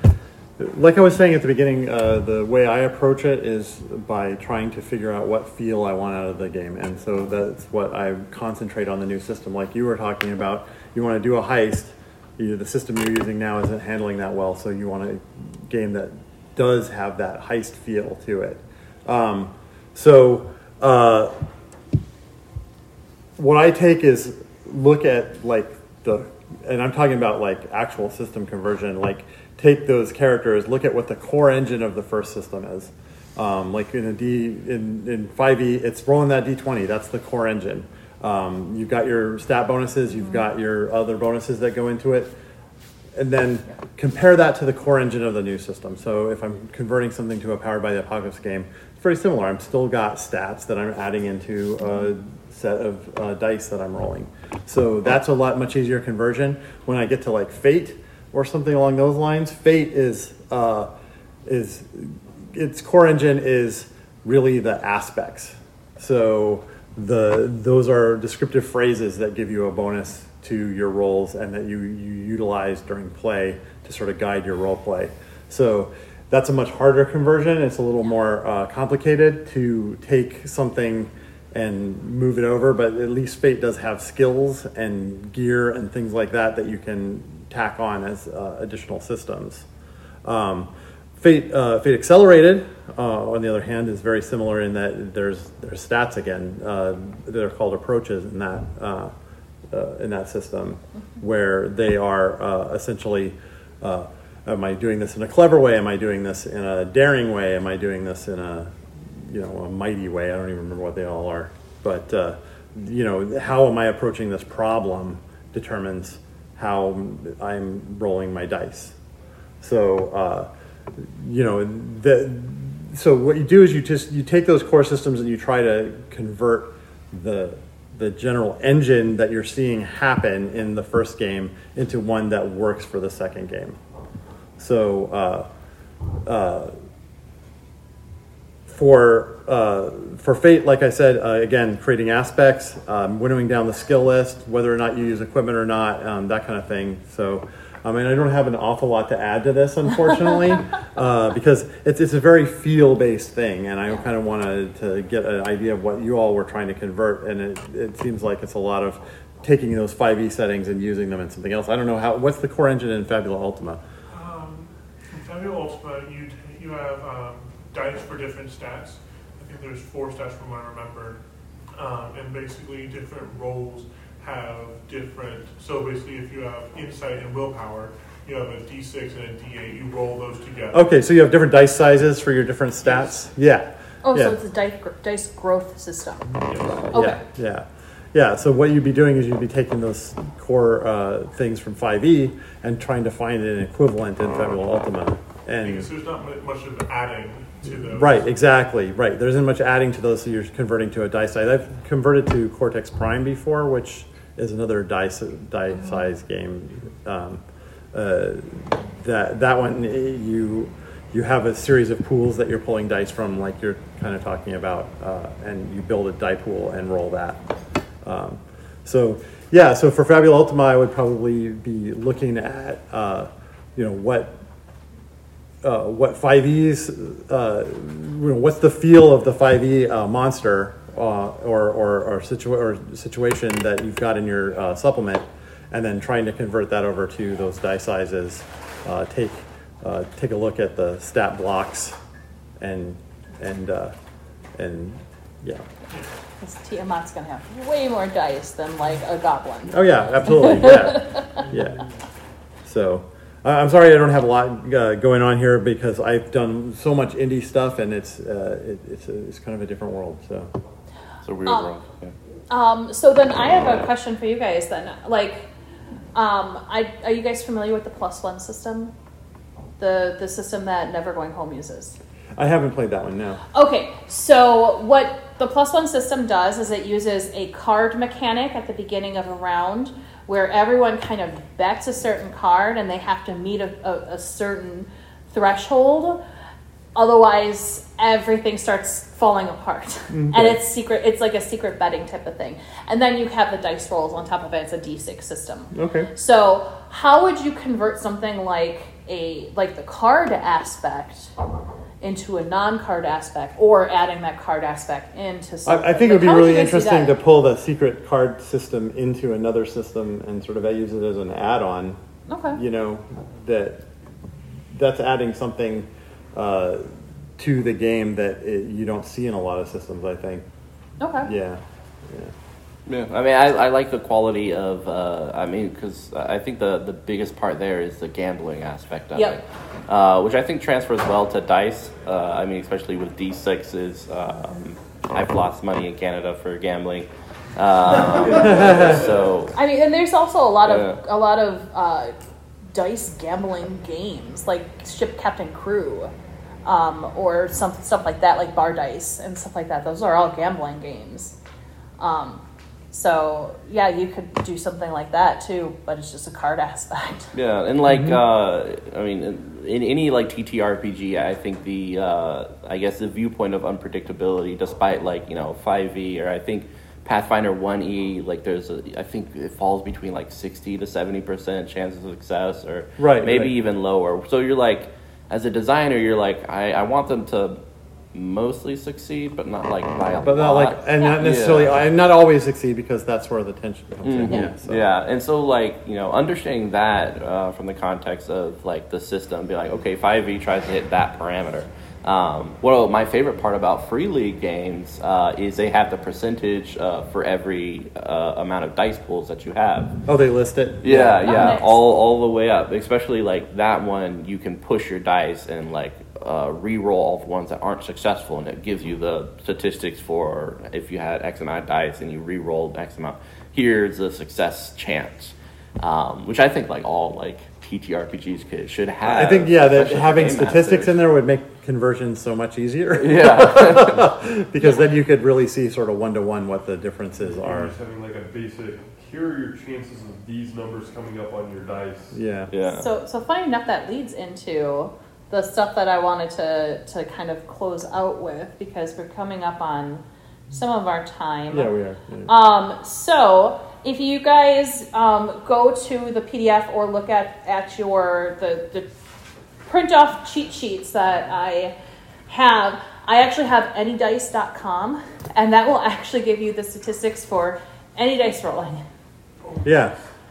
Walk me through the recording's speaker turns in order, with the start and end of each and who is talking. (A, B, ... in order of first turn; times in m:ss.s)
0:00.6-0:21.3 A
0:23.4-0:42.3 A
0:43.1-1:00.9 A
1:01.4-1:29.7 A
1:30.2-1:39.1 A
1:39.7-1:59.0 A
1:59.6-2:13.8 A
2:14.6-2:15.5 A
2:16.2-2:16.8 A
2:18.7-2:43.8 A
2:44.1-2:51.2 B
2:51.7-3:00.8 B
3:00.7-3:04.4 A
3:04.0-3:06.3 C
3:06.4-3:06.8 B
3:06.6-3:15.9 A
3:06.9-3:07.2 C
3:15.6-3:18.2 B
3:17.7-3:37.4 A
3:38.0-3:44.4 A
3:45.6-4:02.0 A
4:02.6-4:03.9 A
4:04.6-4:05.6 A
4:06.4-4:11.4 C
4:09.7-4:11.8 A
4:12.6-4:20.5 A
4:21.2-4:22.1 D
4:21.4-4:21.7 C
4:22.5-4:25.5 C
4:26.1-4:28.9 C
4:29.8-4:32.0 C
4:32.4-4:33.4 A
4:33.5-4:46.2 C
4:46.9-5:01.3 C
4:50.1-4:50.6 A
4:55.7-4:56.1 A
5:02.0-5:07.2 C
5:05.6-5:12.0 A
5:12.3-5:12.6 C
5:12.5-5:13.9 A
5:14.7-5:20.4 A
5:21.0-5:21.3 C
5:21.2-5:22.3 A
5:22.9-5:39.5 D
5:38.1-5:39.2 E
5:39.5-5:42.1 C
5:40.6-5:41.0 D
5:42.7-5:46.1 C
5:46.6-5:51.4 C
5:52.0-5:57.3 C
5:57.3-6:17.6 D
5:57.9-5:58.2 A
6:13.0-6:13.6 A
6:18.1-6:21.8 D
6:20.2-6:24.8 A
6:24.0-6:40.0 D
6:40.0-6:41.6 A
6:40.8-7:00.9 D
6:41.2-6:41.8 C
6:59.0-7:07.7 A
7:03.0-7:04.1 D
7:07.2-7:12.2 E
7:12.1-7:12.5 A
7:12.5-7:12.9 D
7:12.7-7:21.7 C
7:21.5-7:22.3 A
7:22.3-7:28.9 C
7:29.7-7:31.7 C
7:32.3-7:38.8 C
7:39.6-7:39.9 A